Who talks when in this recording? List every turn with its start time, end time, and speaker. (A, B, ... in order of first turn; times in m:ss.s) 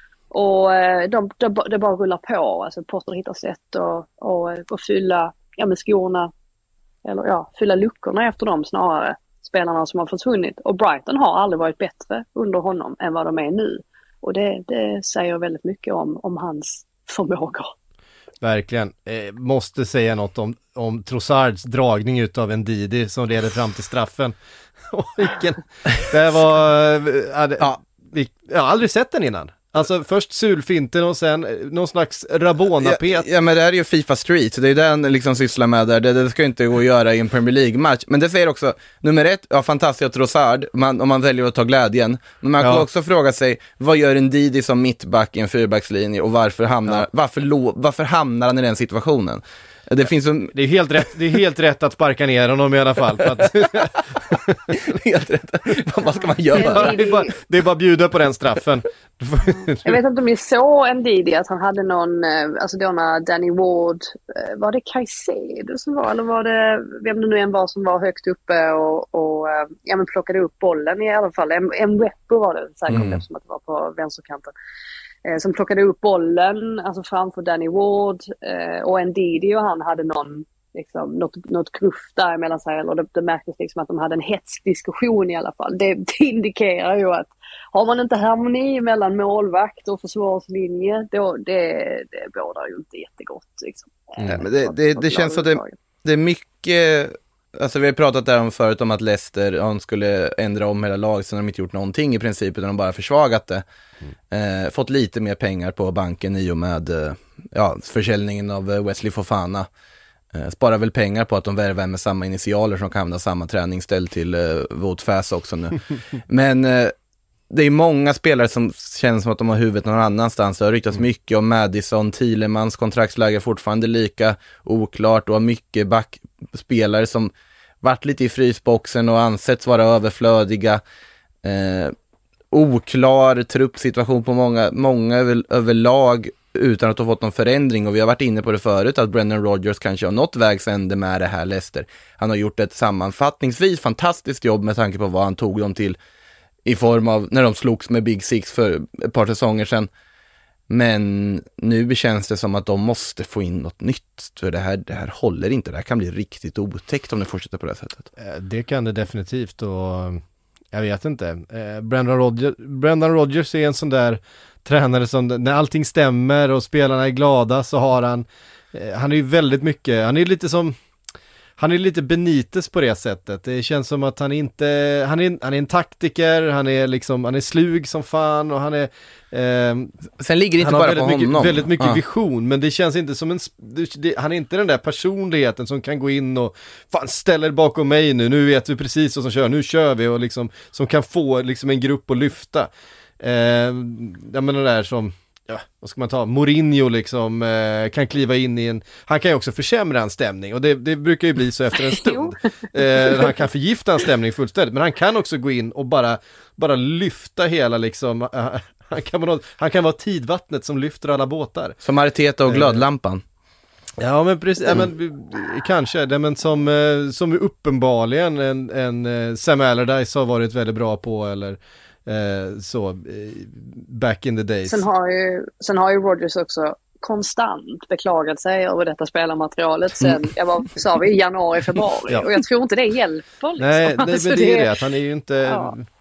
0:00.3-0:06.3 A
0:07.0-0:17.7 A
0:18.4-0:24.3 B
0:24.9-0:33.3 B
0:32.8-0:50.6 C
0:42.6-0:42.8 B
0:50.5-0:54.8 B
0:54.7-0:57.0 C
0:56.5-0:57.3 A
0:56.5-1:00.0 B
0:59.4-1:14.5 A
1:12.9-1:13.2 C
1:15.2-1:35.8 A
1:34.2-1:43.6 C
1:44.3-1:49.7 C
1:50.3-1:56.9 C
1:57.5-2:10.8 C
2:11.4-2:11.9 C
2:12.5-2:26.0 C
2:26.6-2:29.9 C
2:30.7-2:38.1 C
2:38.2-2:40.2 B
2:40.7-2:50.7 B
2:51.6-2:59.9 B
3:00.2-3:02.0 C
3:00.6-3:12.7 B
3:13.2-3:31.8 B
3:21.9-3:23.3 A
3:31.8-3:33.2 C
3:32.5-3:32.8 B
3:34.0-3:44.8 B
3:44.6-3:54.7 A
3:52.1-3:52.4 B
3:53.6-3:55.8 B
3:55.4-3:55.7 A